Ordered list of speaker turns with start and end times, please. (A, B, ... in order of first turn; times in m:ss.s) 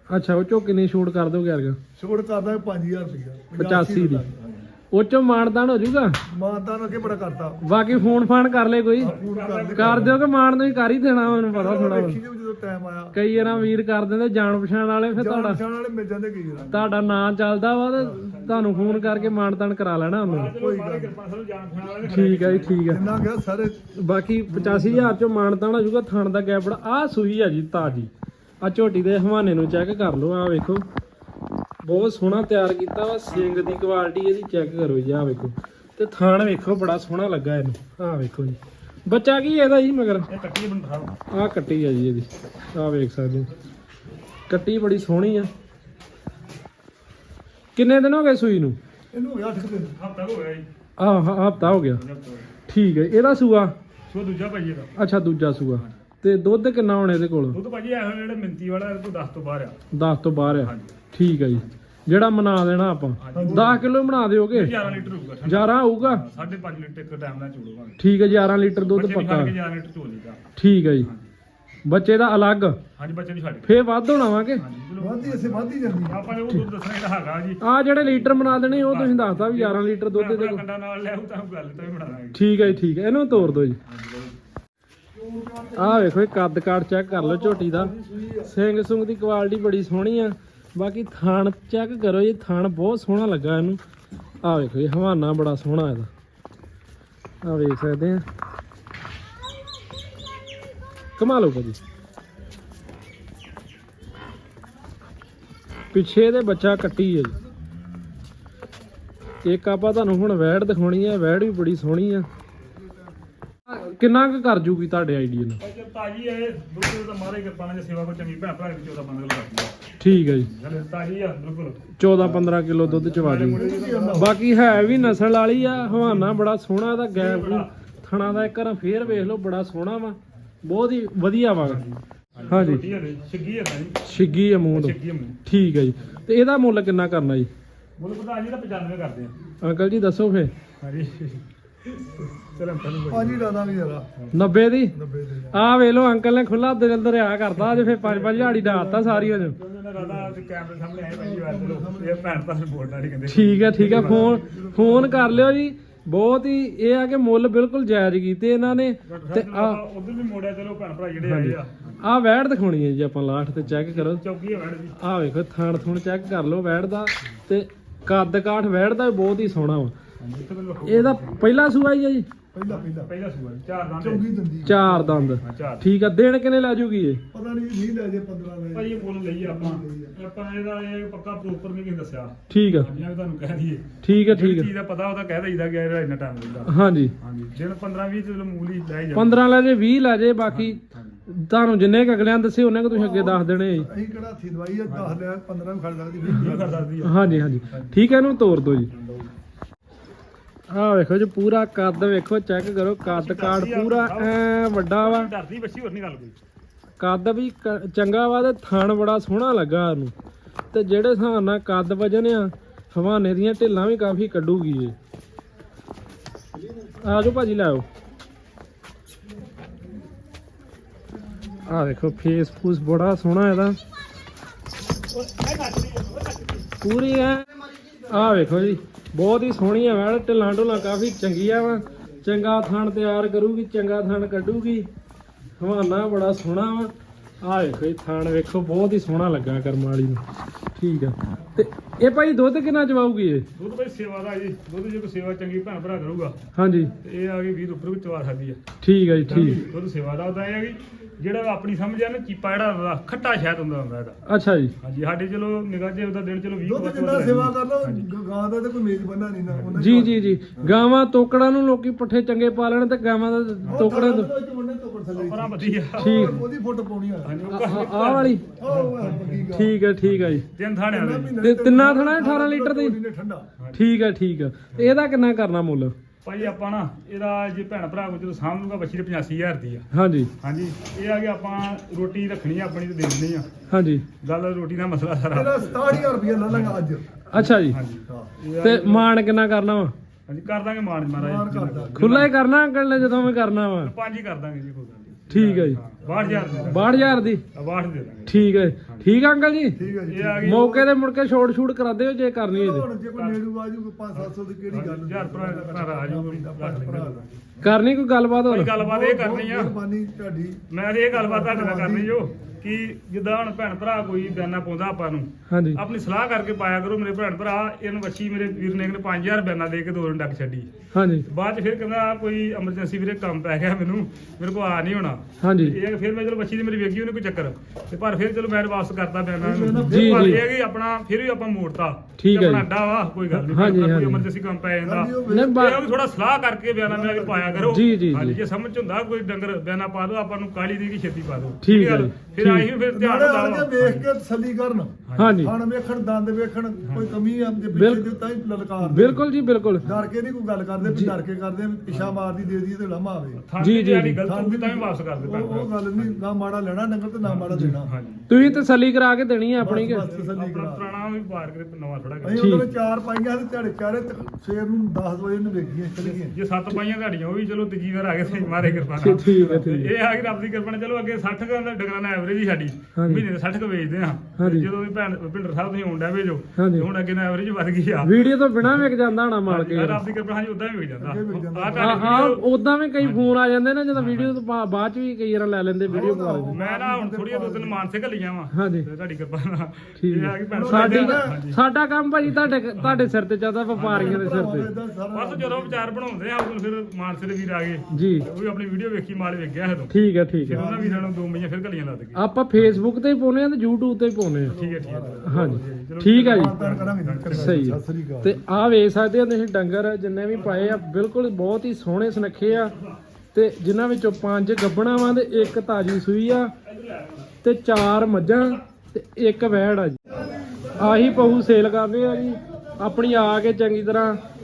0:00.1-0:01.8 A
0:02.0-0:04.7 B
0:03.5-0:04.2 A
0:04.9-0:06.2 A
0:06.3-0:07.6 B
0:07.6-0:09.1 A
0:09.0-0:10.2 B
0:09.0-0:10.2 C
0:09.7-0:12.2 A
0:11.3-0:13.2 B
0:13.1-0:15.6 A
0:15.2-0:16.9 B
0:16.7-0:20.5 A
0:18.2-0:19.4 C
0:20.2-0:22.9 C
0:20.6-0:21.1 B
0:22.0-0:23.0 A
0:22.9-0:23.8 B
0:24.0-0:28.1 A
0:24.5-0:25.1 B
0:28.6-0:30.8 A
0:31.8-0:40.3 A
0:33.3-0:33.8 C
0:40.3-0:41.1 C
0:41.3-0:43.5 A
0:44.5-0:45.5 A
0:47.8-0:48.8 A
0:49.1-0:49.9 B
0:49.8-0:50.7 C
0:51.0-0:52.0 A
0:51.6-0:52.5 C
0:52.7-0:53.7 A
0:54.1-0:54.9 C
0:55.0-0:57.6 A
0:57.5-0:59.8 C
0:59.9-1:04.7 A
1:00.5-1:01.0 C
1:03.2-1:03.8 C
1:03.3-1:03.8 B
1:04.5-1:08.0 C
1:05.4-1:06.2 A
1:08.0-1:09.5 A
1:08.8-1:10.4 C
1:10.6-1:11.1 A
1:11.8-1:12.8 A
1:13.0-1:13.7 C
1:13.6-1:14.6 A
1:14.6-1:22.6 C
1:15.0-1:16.3 B
1:17.6-1:20.6 A
1:22.3-1:23.8 A
1:23.3-1:24.3 C
1:25.1-1:26.2 B
1:25.8-1:27.9 A
1:27.1-1:28.5 B
1:28.4-1:33.8 A
1:34.4-1:36.1 A
1:37.4-1:38.2 A
1:41.2-1:41.8 A
1:45.9-1:47.3 A
1:49.4-1:52.3 A
1:53.7-1:55.6 A
1:55.6-1:59.8 C
2:00.0-2:00.5 A
2:00.4-2:01.9 C
2:02.0-2:03.6 A
2:02.8-2:04.3 C
2:03.5-2:04.3 B
2:04.1-2:11.8 A
2:04.9-2:05.2 C
2:05.7-2:06.3 C
2:07.0-2:07.7 C
2:11.6-2:14.0 C
2:12.5-2:12.8 A
2:14.0-2:17.5 A
2:14.7-2:15.4 C
2:18.0-2:19.4 C
2:19.6-2:20.5 A
2:20.8-2:21.4 C
2:22.3-2:23.5 C
2:23.1-2:24.0 B
2:24.3-2:24.9 A
2:24.9-2:25.6 B
2:25.5-2:29.6 A
2:27.5-2:28.4 C
2:28.0-2:29.5 B
2:29.5-2:34.4 C
2:30.0-2:30.2 B
2:31.1-2:32.4 B
2:33.3-2:39.8 A
2:33.7-2:35.4 B
2:39.0-2:42.0 C
2:41.2-2:44.2 A
2:43.8-2:45.0 C
2:45.0-2:49.9 A
2:50.2-2:51.5 C
2:50.8-2:52.3 A
2:52.5-2:53.1 B
2:52.7-2:54.3 C
2:54.0-2:55.4 B
2:54.6-2:57.2 A
2:55.4-2:55.8 C
2:57.3-3:00.1 B
2:58.7-3:09.4 C
3:02.5-3:02.9 A
3:04.0-3:04.7 A
3:06.6-3:07.1 A
3:09.1-3:13.9 A
3:10.5-3:11.2 C
3:12.9-3:16.9 B
3:14.9-3:15.2 C
3:16.3-3:17.5 C
3:17.0-3:18.9 A
3:20.7-3:25.3 A
3:23.0-3:24.4 C
3:25.0-3:26.4 C
3:27.0-3:30.1 A
3:30.7-3:35.0 A
3:37.0-3:37.8 A
3:41.7-3:43.8 A
3:45.1-3:46.7 C
3:46.8-3:47.5 A
3:48.1-3:54.9 A
3:55.6-4:00.2 A
4:00.7-4:03.4 A
4:03.5-4:06.4 C
4:06.5-4:06.9 A
4:07.0-4:08.6 C
4:08.8-4:09.6 A
4:09.2-4:14.2 C
4:14.2-4:14.7 A
4:14.8-4:18.1 C
4:16.6-4:20.7 B
4:19.5-4:19.8 C
4:19.8-4:24.3 A
4:23.6-4:23.9 C
4:23.7-4:27.4 B
4:25.1-4:26.4 C
4:26.0-4:26.4 A
4:27.2-4:29.5 C
4:27.5-4:28.4 A
4:28.6-4:29.8 B
4:29.5-4:30.4 A
4:30.0-4:31.4 C
4:30.9-4:33.5 B
4:31.4-4:33.0 A
4:33.6-4:33.9 C
4:33.7-4:35.9 A
4:34.7-4:35.0 C
4:36.2-4:39.8 C
4:39.9-4:40.3 A
4:40.4-4:43.5 C
4:43.7-4:44.0 A
4:44.2-4:46.8 C
4:45.3-4:47.0 B
4:47.3-4:47.8 A
4:47.4-4:49.1 C
4:48.6-4:49.9 A
4:50.3-4:52.3 C
4:51.1-4:52.1 B
4:52.0-4:53.9 A
4:53.8-4:59.1 C
4:55.3-4:55.8 A
4:56.0-4:57.2 B
4:56.7-4:57.4 A
4:58.3-4:59.8 A
4:59.7-5:00.9 B
5:00.1-5:00.7 C
5:00.4-5:02.9 A
5:02.5-5:07.7 B
5:03.2-5:03.4 C
5:04.1-5:07.4 C
5:07.6-5:08.7 A
5:08.5-5:09.7 C
5:08.8-5:10.6 B
5:10.7-5:20.7 C
5:11.1-5:12.1 B
5:15.5-5:15.8 A
5:20.9-5:21.2 A
5:21.2-5:44.0 C
5:25.4-5:25.8 A
5:29.4-5:30.5 B
5:29.7-5:30.4 A
5:32.2-5:32.7 A
5:33.3-5:34.2 A
5:34.8-5:35.6 B
5:35.3-5:35.8 A
5:36.9-5:37.8 B
5:37.7-5:38.4 A
5:41.6-5:42.7 A
5:42.9-5:49.2 B
5:45.1-5:45.4 C
5:45.2-5:45.5 A
5:46.8-5:47.2 C
5:47.7-5:48.1 A
5:48.8-5:49.8 A
5:49.8-5:50.1 C
5:49.8-5:53.4 B
5:50.8-5:51.1 A
5:51.9-5:52.3 C
5:53.4-5:56.2 C
5:53.6-5:54.2 A
5:54.2-5:58.4 B
5:57.2-5:58.3 C
5:58.3-6:00.0 A
5:59.6-6:00.9 B
6:00.0-6:02.6 C
6:02.2-6:06.3 B
6:02.4-6:02.7 A
6:06.0-6:18.8 C
6:08.2-6:09.6 B
6:09.0-6:09.9 A
6:12.9-6:13.2 A
6:14.4-6:14.7 A
6:16.6-6:16.9 A
6:18.0-6:20.0 A
6:19.4-6:22.4 C
6:21.0-6:22.3 B
6:21.7-6:26.5 A
6:23.0-6:23.3 C
6:23.9-6:24.4 C
6:25.9-6:27.8 B
6:25.9-6:31.6 C
6:28.5-6:28.8 A
6:30.0-6:34.7 A
6:30.5-6:31.4 B
6:32.2-6:33.1 C
6:33.7-6:34.3 C
6:33.9-6:35.9 B
6:35.1-6:39.9 C
6:37.9-6:38.3 A
6:39.9-6:40.6 A
6:40.4-6:42.8 C
6:40.5-6:41.1 B
6:42.1-6:44.6 A
6:44.5-6:47.7 C
6:44.5-6:45.6 B
6:45.2-6:46.5 A
6:46.2-6:48.4 B
6:47.3-6:52.7 A
6:50.3-6:50.8 C
6:53.3-6:56.5 A
6:56.6-6:57.3 C
6:57.4-7:00.0 A
7:00.8-7:04.2 A